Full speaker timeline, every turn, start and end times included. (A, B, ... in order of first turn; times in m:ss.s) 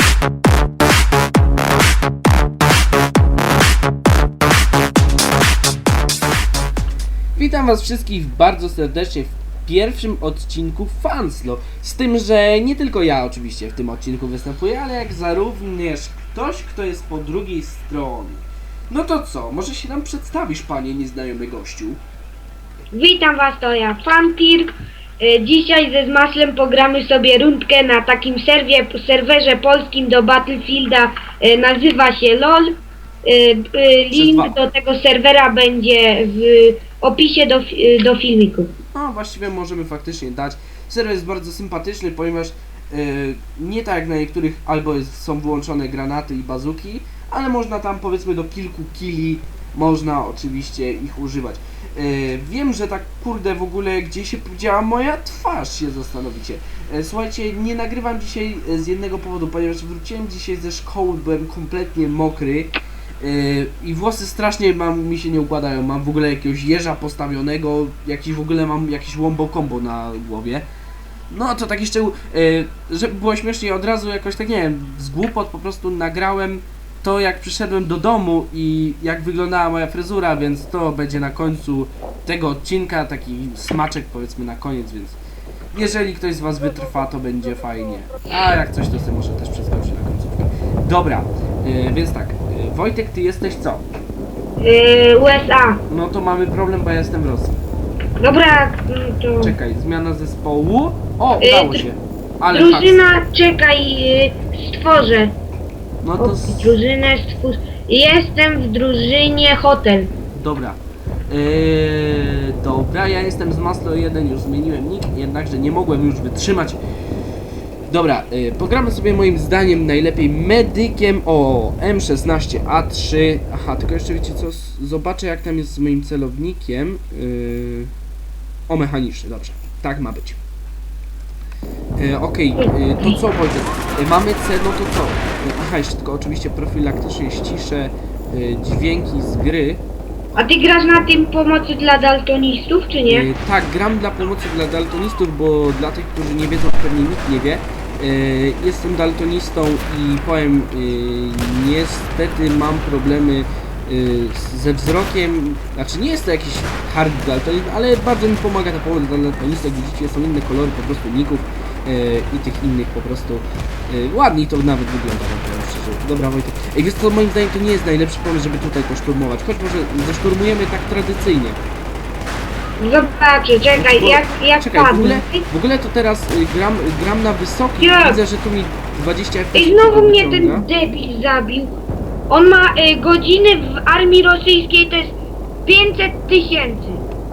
0:07.4-0:22.0 A
0:22.9-0:38.7 B
0:34.1-0:34.6 A
0:38.9-1:10.7 A
1:11.3-1:25.2 A
1:25.7-1:33.8 A
1:34.6-1:35.8 B
1:35.9-1:37.6 A
1:38.2-1:39.6 B
1:39.4-1:43.0 A
1:41.4-1:41.9 B
1:42.5-1:45.4 B
1:46.0-1:46.8 A
1:46.2-1:50.1 B
1:50.3-1:56.8 A
1:57.9-2:07.9 A
2:08.7-2:10.4 A
2:12.0-2:19.8 A
2:12.6-2:13.2 B
2:20.4-2:23.3 B
2:23.1-2:51.6 A
2:52.8-2:55.5 B
2:53.8-3:00.7 A
2:57.8-2:58.2 B
2:59.6-3:07.0 B